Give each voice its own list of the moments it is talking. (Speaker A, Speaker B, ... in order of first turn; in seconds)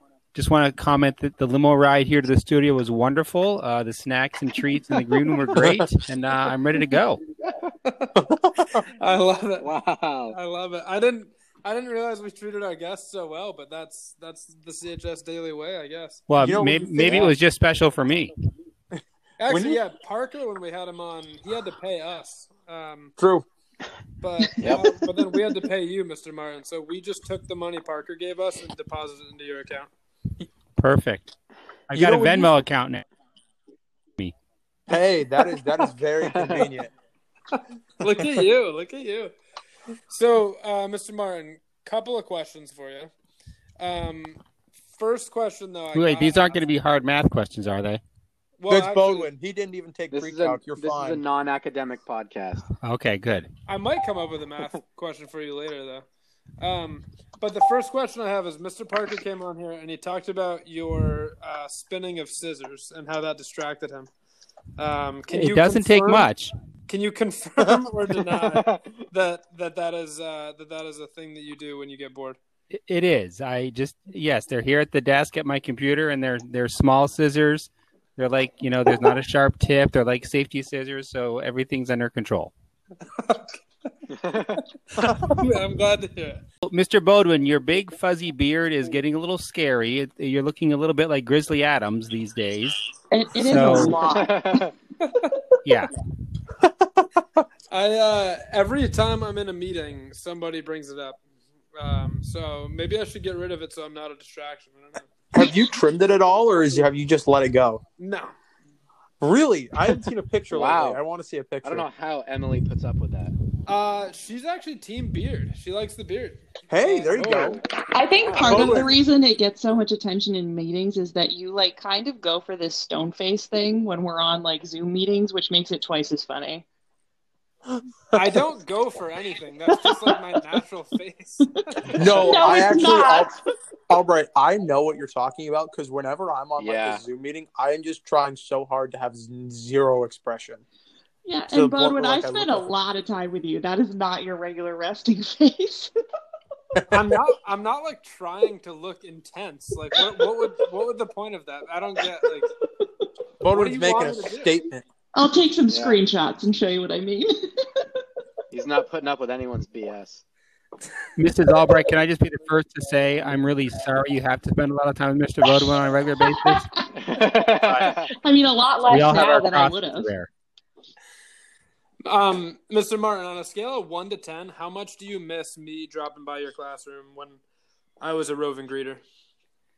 Speaker A: 0.3-7.2, 16.3-18.3, 30.8-31.3, 31.9-33.0, 45.9-48.0, 52.8-53.5, 65.3-66.5, 72.7-82.5, 86.6-92.8, 93.4-94.0, 95.6-95.9, 161.2-166.7, 167.7-167.9, 168.9-170.3
Speaker B: 5.5-5.8, 8.2-8.8, 16.4-17.3, 19.5-19.8, 23.2-23.4, 31.9-32.5, 34.9-36.9, 38.0-38.4, 48.7-51.2, 85.0-85.4, 93.5-94.3, 96.6-97.4, 105.3-107.8, 109.2-111.9, 116.7-117.6, 118.4-118.9, 127.7-128.3, 131.9-133.3, 133.9-140.6, 141.5-142.7, 146.7-147.2, 153.4-154.8
Speaker C: 7.8-8.1, 8.8-9.7, 10.3-16.3, 19.4-23.1, 24.2-29.9, 37.5-39.3, 40.1-43.1, 43.8-44.4, 44.9-46.6, 48.6-49.3, 53.7-56.0, 56.6-64.1, 64.8-66.3, 66.9-72.4, 83.1-83.9, 84.5-86.4, 95.0-95.4, 97.7-101.2, 101.7-105.2, 108.0-108.3, 113.7-117.6, 128.1-132.6, 146.9-152.5, 153.5-154.6, 172.0-177.4, 178.0-179.0
Speaker D: 9.6-10.3, 17.0-17.3, 24.6-24.9, 36.3-36.7, 50.1-52.6, 68.5-69.0, 84.2-84.6, 94.0-94.7, 110.5-111.0, 111.6-113.3, 117.1-117.6, 118.2-118.9, 136.6-137.0, 155.7-156.0, 158.5-160.2, 166.9-168.1
Speaker E: 93.1-94.3, 117.7-126.6, 129.8-130.1, 131.8-133.4, 141.2-145.9, 155.1-157.8, 166.4-167.2, 168.0-170.1